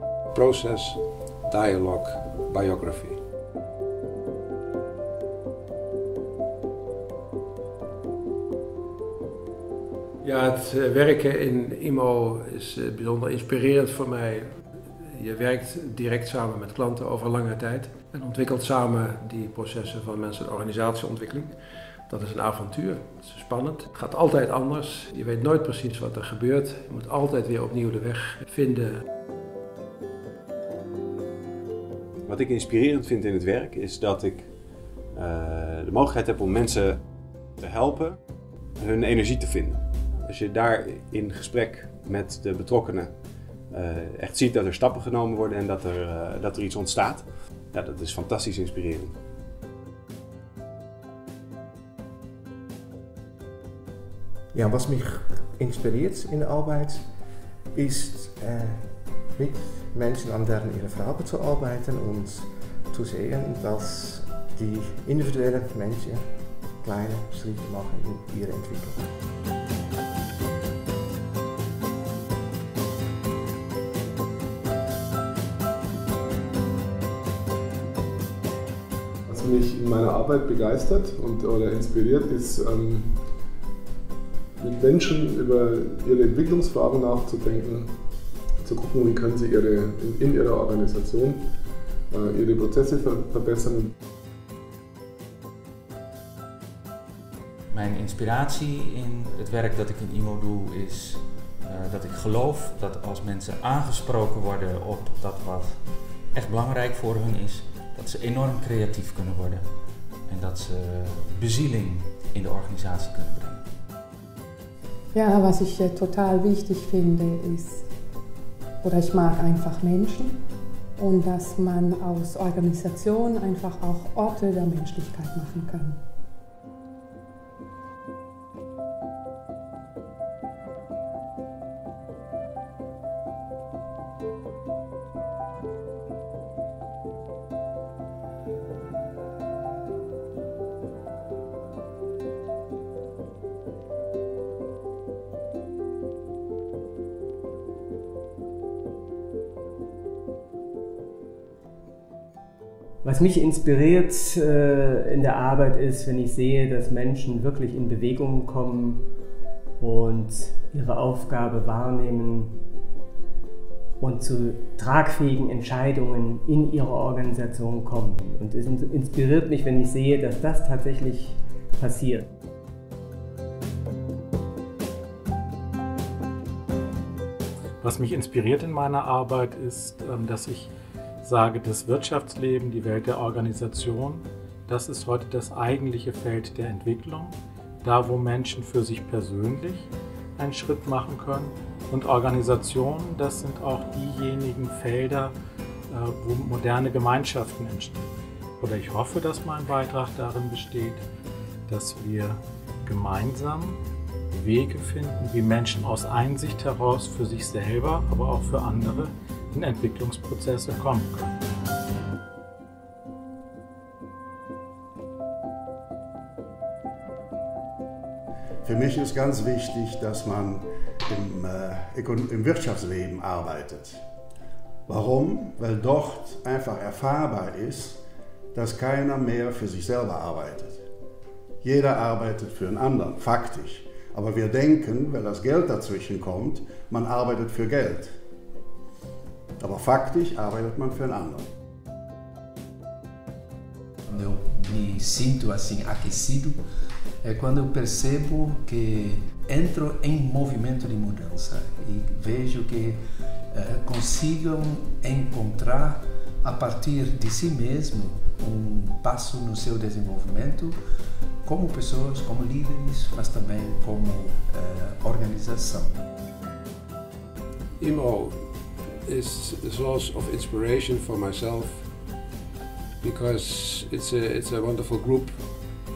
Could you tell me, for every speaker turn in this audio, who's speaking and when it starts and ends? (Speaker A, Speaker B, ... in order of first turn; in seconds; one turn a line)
Speaker A: 0.3-3.2
Speaker A: 10.2-21.6
Speaker A: 22.1-29.0
Speaker B: 32.3-34.4
Speaker B: 35.2-36.9
Speaker B: 37.6-38.1
Speaker B: 38.9-43.1
Speaker B: 43.7-47.2
Speaker B: 47.7-49.1
Speaker C: 54.5-57.1
Speaker C: 57.7-69.1
Speaker D: 79.3-83.2
Speaker D: 84.6-87.9
Speaker D: 88.6-91.4
Speaker D: 92.1-93.9
Speaker E: 97.7-113.7
Speaker F: 115.1-117.9
Speaker F: 118.8-120.4
Speaker F: 121.0-126.0
Speaker G: 153.0-159.1
Speaker G: 159.8-162.6
Speaker G: 164.0-172.3
Speaker H: 177.8-180.7
Speaker H: 181.2-195.3
Speaker H: 195.9-201.0
Speaker H: 201.7-203.8
Speaker H: 204.3-211.3
Speaker I: 218.6-224.0
Speaker I: 224.9-228.0
Speaker I: 228.5-230.8
Speaker I: 231.6-238.1
Speaker I: 239.6-241.5
Speaker J: 244.1-246.6
Speaker J: 247.2-253.0
Speaker J: 253.5-260.8
Speaker J: 261.4-265.9
Speaker A: 267.8-268.5
Speaker A: 269.0-271.9
Speaker A: 273.0-275.6